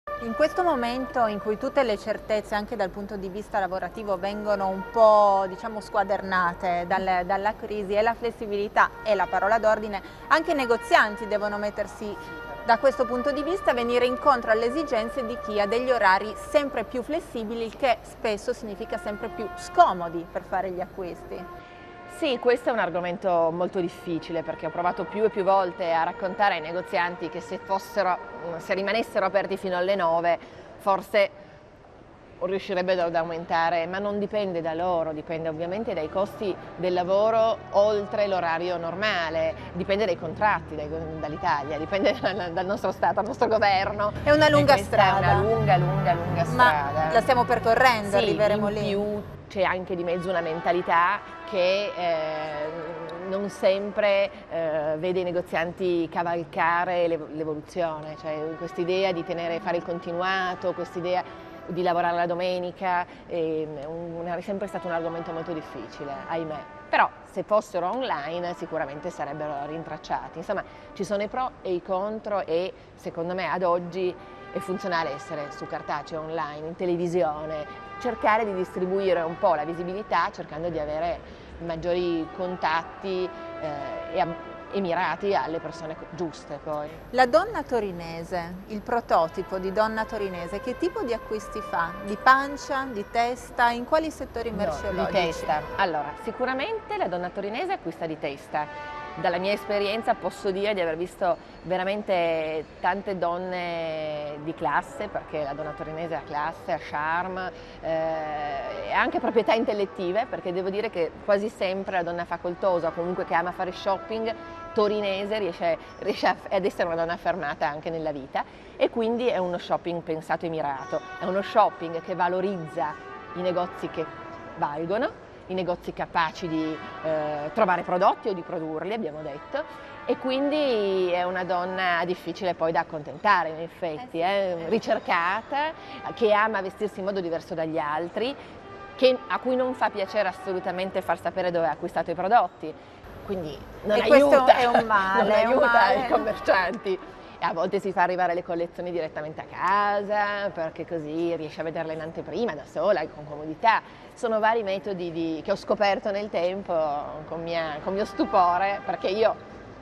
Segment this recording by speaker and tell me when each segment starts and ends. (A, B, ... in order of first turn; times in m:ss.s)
0:00.2-0:21.4 A
0:22.1-0:31.4 B
0:32.4-0:47.2 B
0:44.2-0:45.5 A
0:46.5-0:49.0 A
0:48.0-1:27.0 B
1:27.1-1:35.5 A
1:34.5-2:18.4 B
2:19.0-2:39.4 B
2:23.9-2:26.3 A